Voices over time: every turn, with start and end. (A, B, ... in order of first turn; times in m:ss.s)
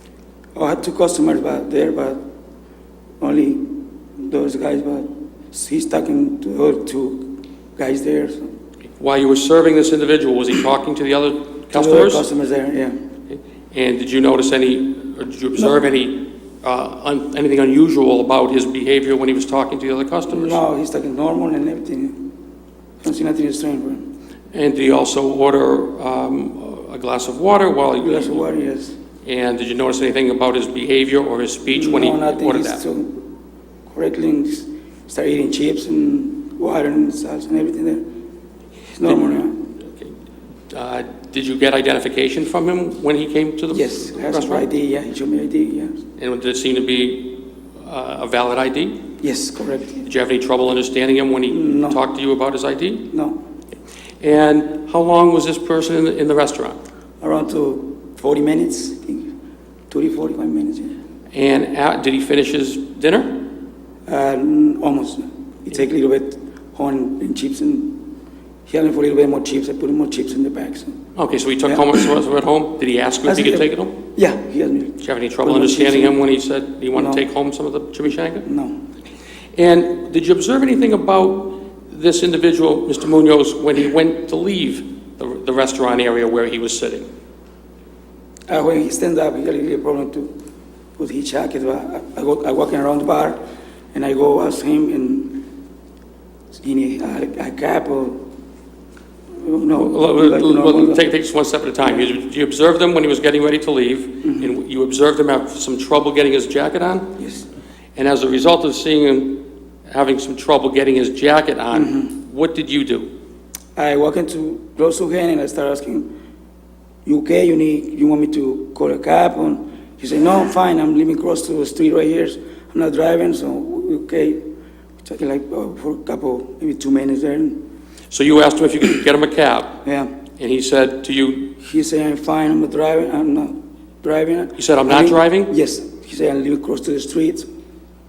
0:00.5-0:02.2 A
0:03.2-0:08.5 A
0:09.0-0:12.2 B
0:11.7-0:13.0 A
0:13.3-0:20.6 B
0:20.3-0:22.3 A
0:23.0-0:24.0 A
0:24.5-0:28.4 B
0:28.0-0:29.0 A
0:29.2-0:32.8 B
0:31.7-0:33.3 A
0:33.9-0:38.0 A
0:38.9-0:39.7 A
0:40.7-0:44.6 B
0:43.7-0:46.0 A
0:46.2-0:49.0 B
0:49.2-0:50.0 A
0:50.0-0:53.1 B
0:51.5-0:52.0 A
0:53.1-0:53.4 A
0:54.2-0:56.8 B
0:57.2-0:59.3 A
0:59.9-1:00.9 A
1:01.3-1:03.4 B
1:04.0-1:08.1 A
1:08.7-1:11.0 A
1:11.1-1:14.0 B
1:11.6-1:12.1 A
1:13.2-1:16.2 A
1:15.0-1:18.4 B
1:16.9-1:17.2 A
1:18.4-1:18.8 A
1:19.5-1:27.1 B
1:28.5-1:30.3 A
1:31.0-1:33.4 A
1:33.9-1:35.4 A
1:36.5-1:38.2 A
1:39.4-1:41.0 A
1:39.8-1:47.1 B
1:47.2-1:47.4 A
1:48.0-1:53.1 B
1:51.7-1:52.1 A
1:53.7-1:56.1 A
1:57.0-2:04.4 A
2:05.0-2:07.6 A
2:08.1-2:09.8 B
2:09.8-2:10.1 A
2:10.4-2:11.5 B
2:11.6-2:17.5 A
2:14.6-2:15.5 B